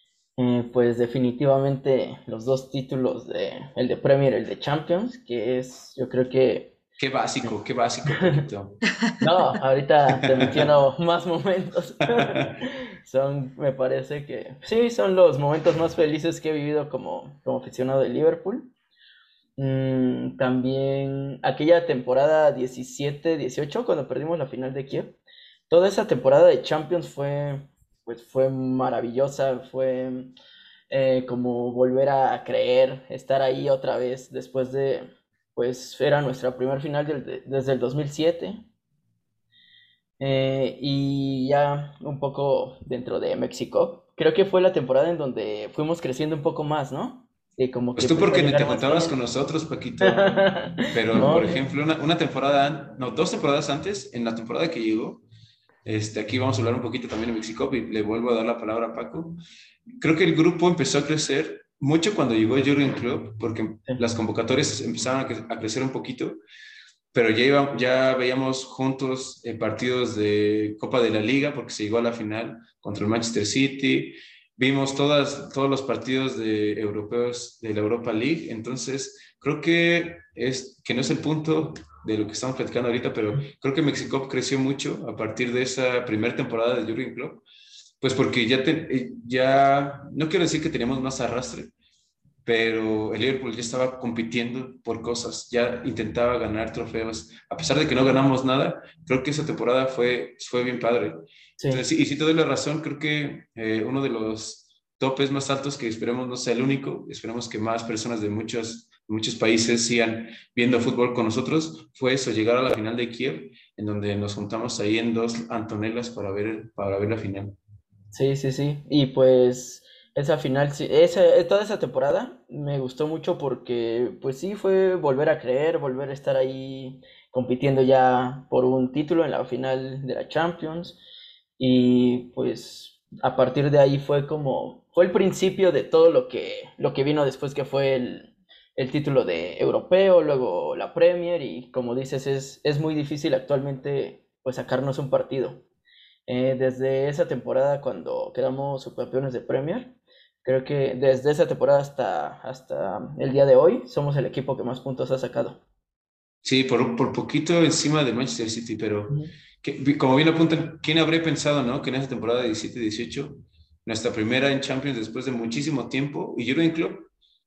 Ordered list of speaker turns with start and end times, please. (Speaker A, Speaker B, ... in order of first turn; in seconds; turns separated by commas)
Speaker A: 0.4-6.8, Speaker B: 7.0-8.8, Speaker A: 8.1-8.4, Speaker A: 9.2-18.7, Speaker B: 10.3-10.7, Speaker B: 12.1-12.5, Speaker A: 19.6-25.2, Speaker A: 25.7-30.3, Speaker A: 30.9-38.7, Speaker A: 40.2-49.2, Speaker B: 47.9-55.2, Speaker A: 50.0-51.6, Speaker B: 55.8-59.4, Speaker B: 60.0-66.4, Speaker B: 67.1-87.4, Speaker B: 88.0-91.7, Speaker B: 92.4-117.6, Speaker A: 101.6-101.8, Speaker A: 118.1-131.0, Speaker A: 131.6-145.6, Speaker A: 146.3-155.6, Speaker B: 156.4-167.1